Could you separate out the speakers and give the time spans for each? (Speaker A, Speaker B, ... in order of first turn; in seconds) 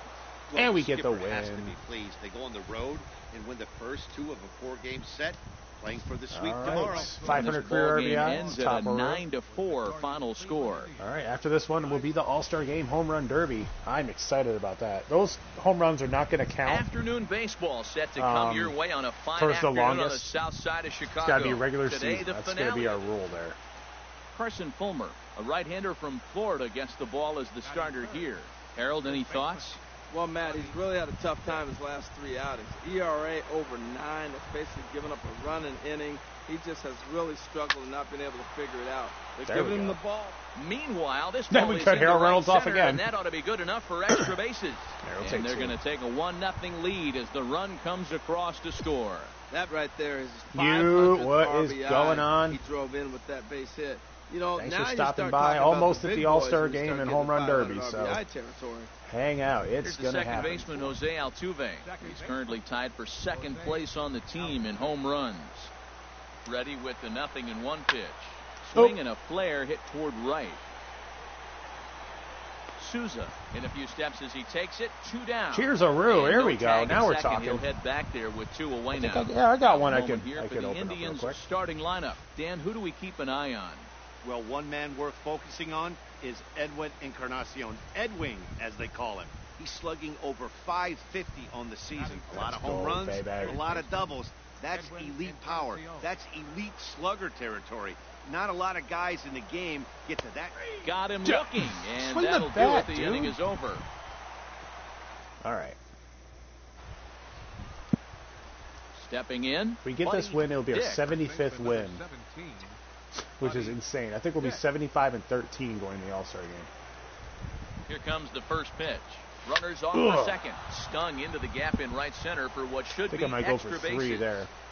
Speaker A: 0.5-7.4, 84.2-100.7
Speaker B: 0.5-1.8, 6.3-9.2, 11.0-16.9, 18.2-18.8, 19.4-20.4, 21.2-23.6, 39.4-40.0, 41.5-43.0, 45.0-45.8, 50.5-52.6, 54.6-58.2, 59.0-61.0, 68.8-69.0, 75.5-77.7, 78.9-81.4, 92.3-93.7, 101.2-103.4, 105.4-105.8, 109.8-112.0, 113.4-116.7, 119.9-120.4, 123.1-124.5
Speaker C: 6.6-12.3, 27.6-28.4, 29.0-29.8, 30.4-31.0, 61.8-62.6, 63.3-65.1, 91.9-94.2, 94.7-96.2, 111.0-112.8, 113.4-113.8, 114.4-114.6
Speaker D: 7.2-10.9, 16.7-23.0, 24.3-29.8, 40.5-49.3, 59.8-65.7, 66.5-70.6, 72.8-83.9, 100.8-103.9, 109.0-111.0, 117.9-124.5
Speaker E: 30.1-40.4, 49.5-58.9